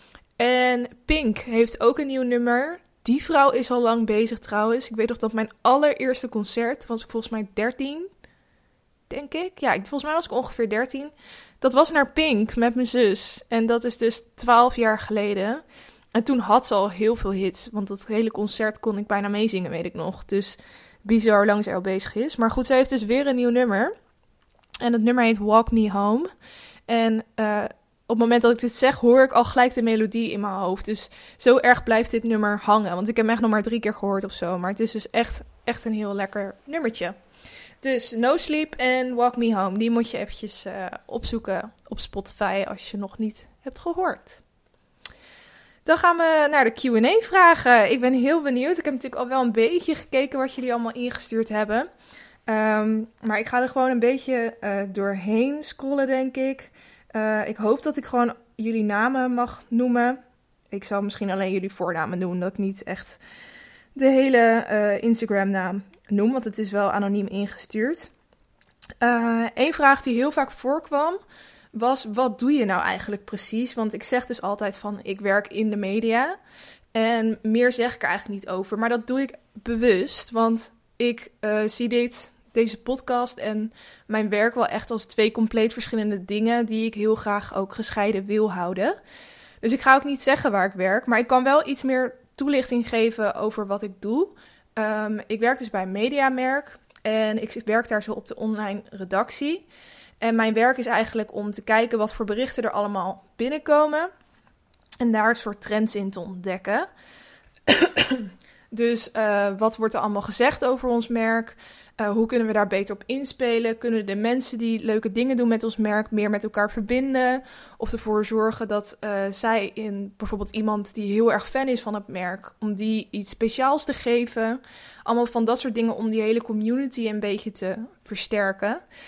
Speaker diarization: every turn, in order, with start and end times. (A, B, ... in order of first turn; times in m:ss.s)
0:00.4-0:08.1 A
0:09.1-0:15.6 A
0:16.1-0:23.9 A
0:24.8-0:26.3 A
0:26.9-0:37.2 A
0:37.8-0:44.4 A
0:45.8-0:51.9 A
0:52.4-1:00.2 A
1:00.7-1:03.2 A
1:03.9-1:08.1 A
1:09.0-1:11.2 A
1:11.7-1:16.4 A
1:16.9-1:29.0 A
1:29.6-1:39.6 A
1:40.2-1:44.1 A
1:45.0-1:46.9 A
1:47.7-2:08.8 A